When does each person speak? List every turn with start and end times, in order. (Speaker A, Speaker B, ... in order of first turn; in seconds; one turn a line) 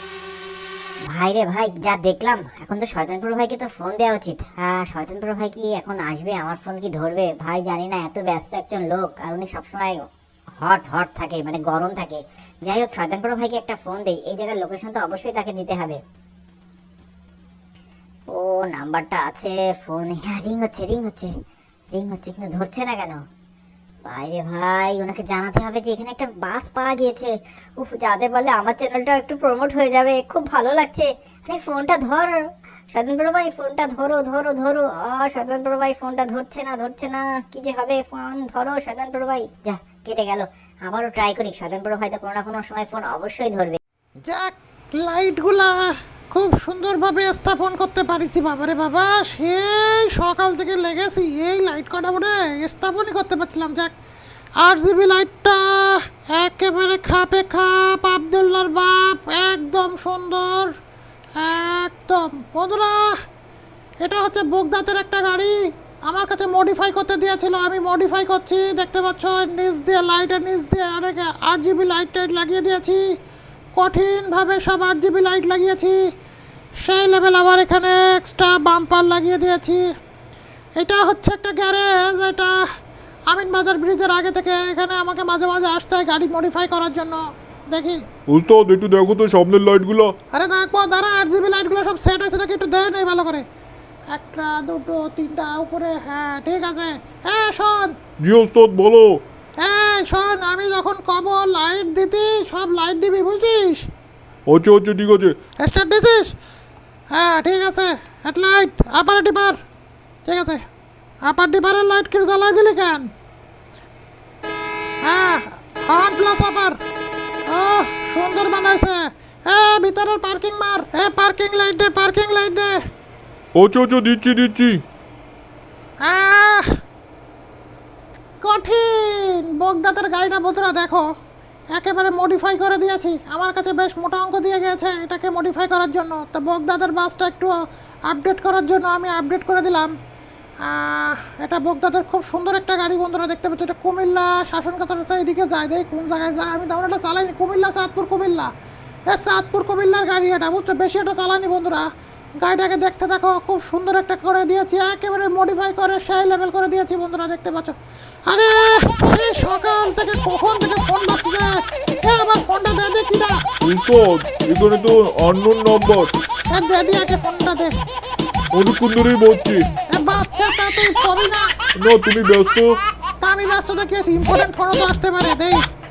Speaker A: 1.1-10.1
Speaker A: 10.6-16.0
Speaker A: 18.3-21.3
Speaker A: 21.9-23.2
Speaker A: 24.1-43.8
Speaker B: 44.2-53.9
Speaker B: 54.6-60.7
Speaker B: 61.4-63.1
Speaker B: 64.0-65.5
Speaker B: 66.1-73.0
Speaker B: 73.8-76.0
Speaker B: 76.8-79.9
Speaker B: 80.8-82.5
Speaker B: 83.3-87.2
Speaker B: 87.7-88.0
Speaker C: 88.3-90.1
Speaker B: 90.3-93.4
Speaker B: 94.1-97.9
Speaker C: 98.2-99.2
Speaker B: 99.6-103.9
Speaker C: 104.5-105.3
Speaker B: 105.6-106.3
Speaker B: 107.1-109.6
Speaker B: 110.2-110.6
Speaker B: 111.2-113.1
Speaker B: 115.0-116.8
Speaker B: 117.5-122.8
Speaker C: 123.5-124.8
Speaker B: 126.0-126.7
Speaker B: 128.4-131.1
Speaker B: 131.7-137.5
Speaker B: 138.1-139.9
Speaker B: 140.6-148.5
Speaker B: 149.1-151.9
Speaker B: 152.4-157.7
Speaker B: 158.3-163.4
Speaker C: 163.6-166.1
Speaker B: 166.5-167.8
Speaker C: 168.5-169.7
Speaker B: 169.9-171.5
Speaker C: 171.8-172.8
Speaker B: 173.2-175.6